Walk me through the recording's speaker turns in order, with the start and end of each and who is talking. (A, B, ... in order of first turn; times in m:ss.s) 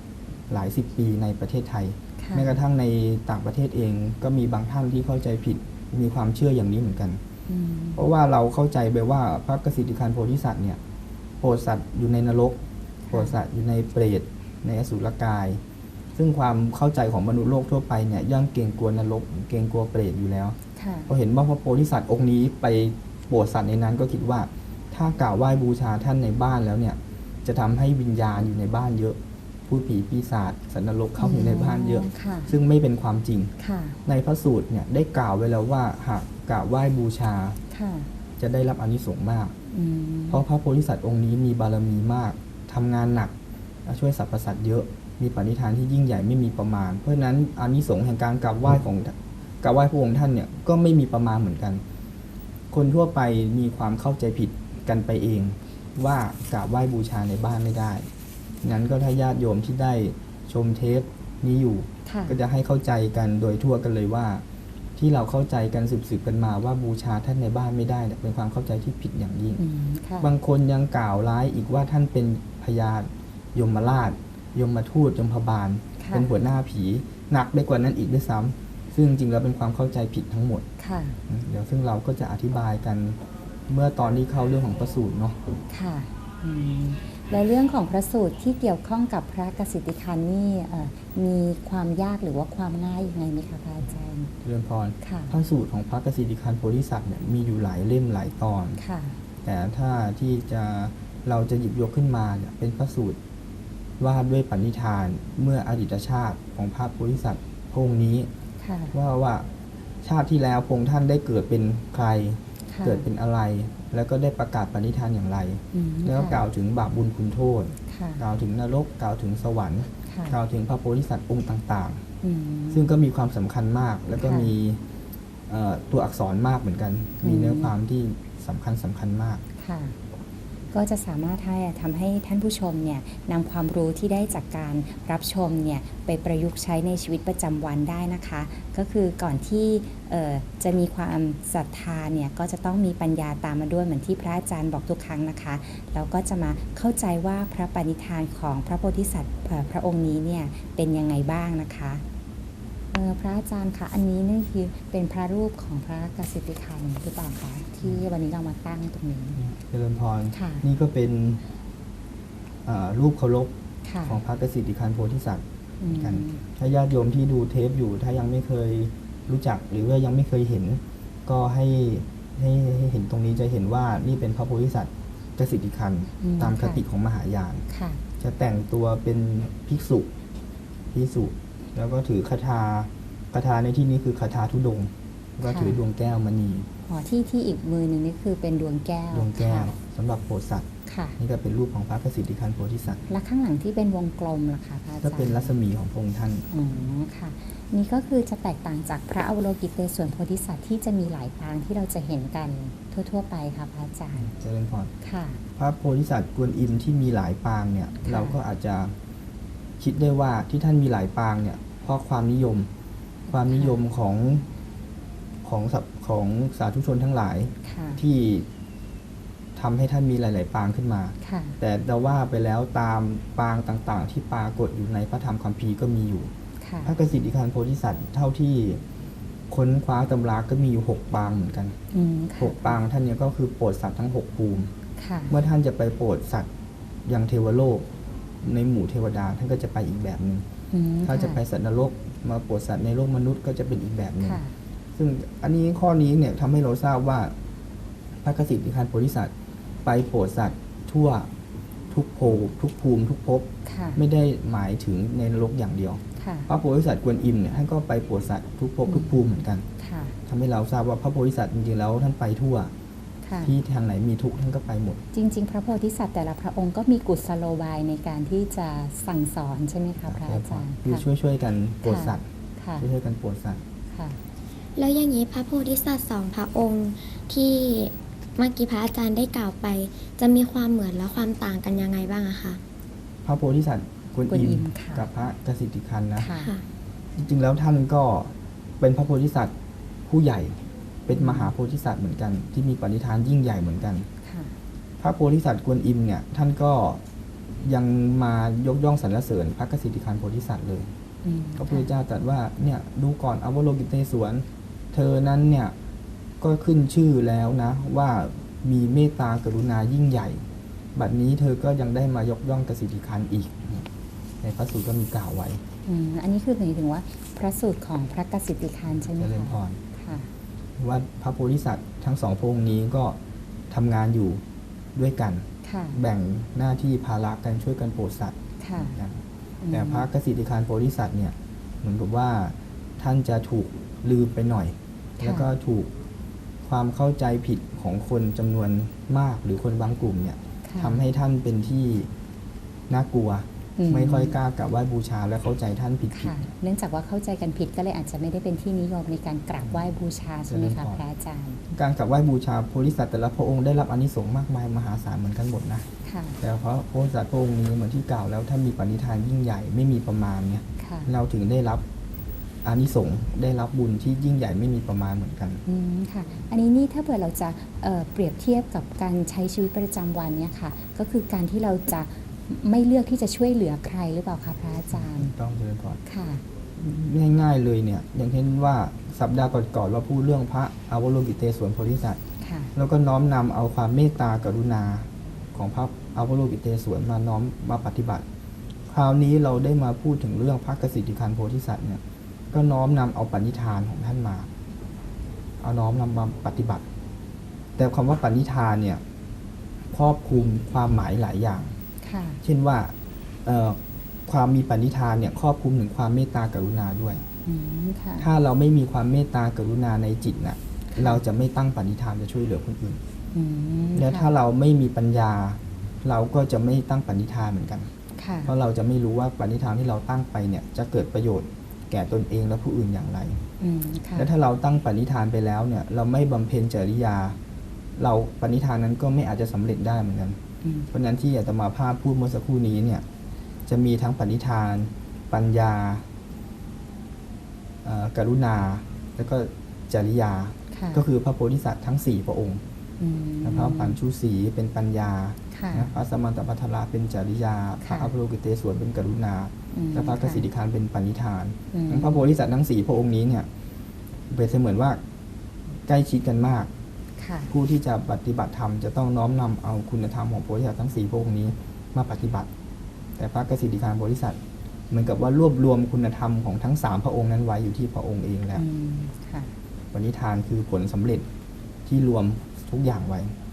0:00.5-0:07.2 A
0:02.2-0:02.6 B
0:07.5-0:08.0 B
0:08.0-0:10.8 A
0:11.4-0:15.6 A
0:13.1-0:13.3 B
0:16.1-0:33.5 A
0:20.8-0:21.1 B
0:31.2-0:32.5 B
0:33.6-0:34.0 B
0:34.0-0:37.6 A
0:37.7-0:38.1 B
0:38.4-0:39.5 A
0:39.7-0:40.4 B
0:40.3-0:51.8 A
0:52.7-0:58.1 A
0:58.6-1:04.4 A
1:02.0-1:02.4 B
1:05.0-1:09.6 A
1:09.6-1:10.3 B
1:10.2-1:20.7 A
1:16.0-1:16.3 B
1:20.8-1:21.2 B
1:21.3-1:25.4 A
1:25.7-1:34.3 B
1:34.4-1:38.8 A
1:35.0-1:35.3 B
1:38.8-1:39.2 B
1:39.4-1:43.2 A
1:44.0-1:48.3 A
1:48.6-1:49.0 B
1:48.9-1:49.5 A
1:50.0-2:02.0 A
1:52.7-1:53.0 B
1:55.7-1:56.4 B
1:57.9-1:58.2 B
2:00.1-2:00.4 B
2:02.2-2:02.9 B
2:02.7-2:04.8 A
2:04.2-2:04.5 B
2:05.5-2:09.4 A
2:07.2-2:07.7 B
2:09.6-2:10.0 B
2:10.7-2:32.0 B
2:32.9-2:39.4 B
2:39.4-2:41.4 A
2:40.3-2:40.6 B
2:42.6-2:57.6 A
2:43.8-2:44.2 B
2:45.8-2:46.4 B
2:56.2-2:56.8 B
2:57.7-2:58.0 B
2:58.2-3:00.1 A
3:00.9-3:06.7 A
3:05.4-3:05.8 B
3:06.9-3:09.7 B
3:09.1-3:13.0 A
3:10.9-3:11.2 B
3:13.1-3:15.5 B
3:15.0-3:16.4 A
3:16.5-3:24.3 B
3:24.2-3:24.9 A
3:25.0-3:25.4 B
3:25.6-3:29.0 A
3:28.0-3:28.4 B
3:29.8-3:32.7 A
3:33.3-3:34.4 A
3:33.4-3:33.8 B
3:35.4-3:38.5 A
3:37.6-3:38.0 B
3:39.5-3:46.3 A
3:41.2-3:41.6 B
3:46.6-3:46.9 B
3:46.8-3:48.8 A
3:49.5-3:51.8 A
3:51.9-3:52.8 B
3:52.4-3:54.7 A
3:55.0-3:55.3 B
3:55.3-3:56.5 A
3:57.0-3:57.9 A
3:58.4-4:00.4 A
4:00.7-4:01.4 B
4:01.0-4:04.4 A
4:04.2-4:04.5 B
4:05.0-4:07.3 A
4:08.2-4:09.3 A
4:09.8-4:11.3 A
4:11.9-4:19.6 A
4:13.6-4:14.0 B
4:16.2-4:16.5 B
4:18.9-4:19.2 B
4:19.8-4:20.2 B
4:20.3-4:22.7 A
4:23.2-4:23.5 B
4:23.4-4:25.0 A
4:25.1-4:31.0 B
4:30.1-4:32.3 A
4:31.8-4:32.8 B
4:32.8-4:33.6 A
4:33.9-4:34.2 B
4:34.8-4:42.6 C
4:43.2-4:46.3 A
4:44.3-4:45.1 B
4:46.2-4:46.5 B
4:47.1-4:49.5 A
4:50.1-4:54.1 A
4:51.1-4:51.5 B
4:54.2-4:54.5 B
4:55.0-4:57.0 A
4:57.6-5:00.9 A
5:01.2-5:01.9 B
5:01.6-5:05.7 A
5:06.4-5:10.4 A
5:10.9-5:13.9 A
5:14.4-5:15.6 A
5:15.8-5:20.3 B
5:18.9-5:19.8 A
5:20.8-5:23.2 A
5:23.7-5:24.4 A
5:24.9-5:35.9 A
5:25.6-5:26.0 B
5:28.6-5:29.0 B
5:29.6-5:30.1 B
5:35.2-5:35.5 B
5:36.6-5:42.1 A
5:40.6-5:41.0 B
5:42.9-5:46.4 A
5:43.8-5:44.4 B
5:46.1-5:51.6 B
5:50.5-5:51.0 A
5:51.7-5:55.9 A
5:56.0-5:56.4 B
5:56.4-6:01.8 A
6:00.8-6:01.1 B
6:02.6-6:05.6 A
6:05.7-6:15.3 B
6:14.9-6:16.0 A
6:16.0-6:16.4 B
6:16.8-6:22.2 A
6:22.4-6:22.7 B
6:22.7-6:28.2 A
6:28.9-6:32.0 A
6:32.5-6:34.5 A
6:35.6-6:36.8 A
6:37.8-6:39.0 A
6:39.9-6:41.8 A
6:42.0-6:42.4 B
6:42.4-6:47.2 A
6:47.4-6:48.3 B
6:48.2-6:53.0 A
6:50.9-6:51.2 B
6:53.3-6:54.3 B
6:53.9-6:57.9 A
6:58.2-6:58.5 B
6:58.4-7:03.4 A
7:03.6-7:04.3 B
7:04.2-7:07.4 A
7:08.0-7:10.4 A
7:10.6-7:10.9 B
7:10.9-7:13.0 A
7:13.6-7:16.0 A
7:17.8-7:22.6 A
7:20.7-7:21.0 B
7:23.0-7:24.0 B
7:23.4-7:33.5 A
7:25.5-7:25.9 B
7:27.8-7:28.1 B
7:29.7-7:30.5 B
7:31.7-7:32.2 B
7:34.3-7:35.0 A
7:35.8-7:36.7 A
7:37.2-7:37.5 B
7:37.5-7:42.5 A
7:43.2-7:44.4 A
7:44.9-7:48.6 A
7:48.5-7:49.5 B
7:49.9-7:51.3 A
7:51.8-7:53.4 A